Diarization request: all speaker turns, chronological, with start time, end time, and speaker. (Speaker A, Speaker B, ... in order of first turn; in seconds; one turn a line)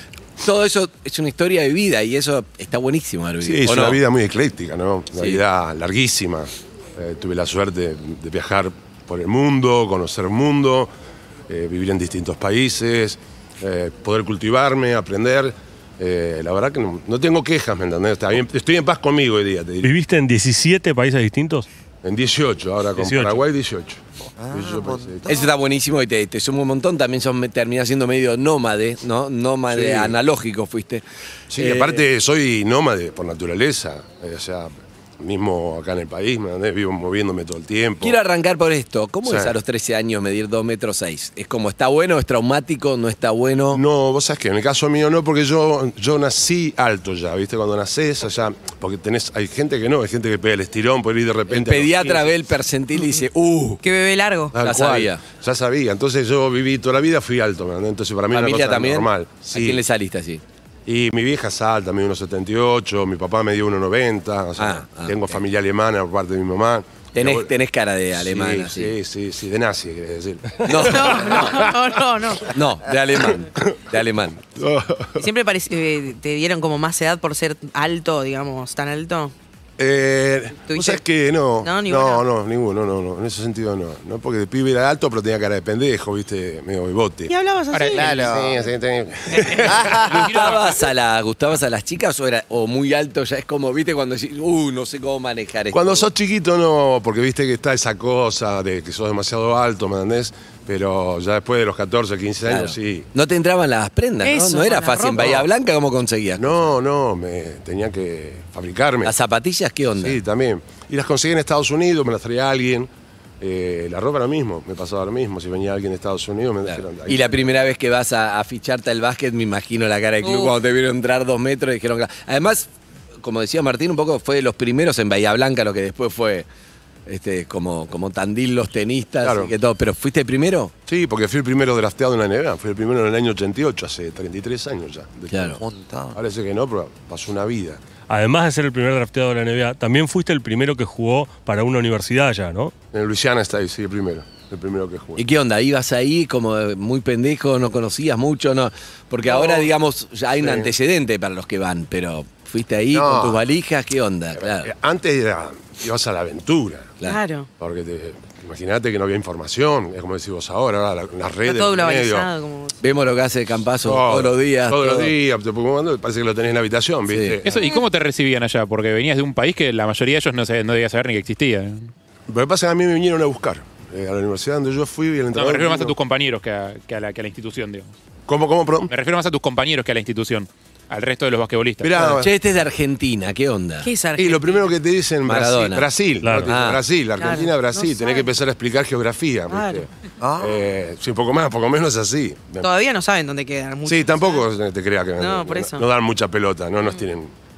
Speaker A: 0.4-4.0
Speaker B: 3.4-10.9
Speaker A: 5.2-5.4
Speaker B: 11.5-19.9
Speaker C: 19.8-21.7
Speaker B: 22.0-25.4
Speaker C: 23.0-23.4
Speaker D: 24.4-25.3
Speaker A: 25.2-31.0
Speaker B: 29.7-30.1
Speaker B: 31.5-38.2
Speaker A: 31.6-32.0
Speaker A: 38.0-43.8
Speaker B: 39.2-39.5
Speaker B: 43.7-52.3
Speaker A: 51.5-53.8
Speaker E: 53.8-54.5
Speaker B: 54.5-59.8
Speaker A: 54.6-55.2
Speaker A: 58.3-60.4
Speaker B: 60.9-67.5
Speaker A: 64.6-65.2
Speaker A: 67.1-68.9
Speaker B: 68.2-71.7
Speaker A: 70.6-71.6
Speaker E: 70.8-72.5
Speaker A: 72.5-74.4
Speaker B: 73.1-75.3
Speaker E: 75.2-79.3
Speaker B: 79.8-87.3
Speaker E: 80.7-81.0
Speaker E: 81.6-82.2
Speaker E: 87.3-88.4
Speaker F: 87.7-88.1
Speaker D: 87.9-88.6
Speaker B: 88.2-90.2
Speaker D: 89.6-90.3
Speaker F: 89.8-90.8
Speaker A: 90.3-96.0
Speaker B: 95.7-103.1
Speaker A: 102.5-106.4
Speaker E: 104.2-105.3
Speaker B: 105.2-105.5
Speaker B: 106.4-109.1
Speaker A: 109.0-110.2
Speaker B: 110.0-112.9
Speaker B: 113.4-117.3
Speaker A: 116.7-122.7
Speaker E: 120.2-120.5
Speaker A: 123.2-126.5
Speaker A: 127.0-130.7
Speaker B: 129.2-129.5
Speaker B: 130.9-135.6
Speaker A: 135.3-135.6
Speaker D: 135.6-136.2
Speaker B: 136.1-137.8
Speaker C: 138.1-142.7
Speaker B: 142.9-145.2
Speaker A: 145.2-154.7
Speaker E: 149.3-149.6
Speaker B: 150.4-150.7
Speaker B: 152.9-153.4
Speaker B: 154.3-156.9
Speaker E: 157.0-157.5
Speaker B: 157.6-162.3
Speaker E: 161.4-162.8
Speaker A: 162.8-165.1
Speaker B: 163.8-167.5
Speaker A: 167.1-167.4
Speaker F: 167.4-171.9
Speaker B: 172.3-175.9
Speaker F: 175.3-177.9
Speaker B: 178.3-178.9
Speaker F: 178.9-182.2
Speaker B: 181.8-182.3
Speaker A: 182.0-183.9
Speaker E: 183.8-184.7
Speaker B: 184.2-192.7
Speaker A: 185.2-186.8
Speaker C: 186.2-186.5
Speaker E: 187.2-188.3
Speaker E: 189.5-189.9
Speaker D: 190.2-190.6
Speaker E: 192.6-194.4
Speaker B: 193.8-197.3
Speaker E: 195.2-195.8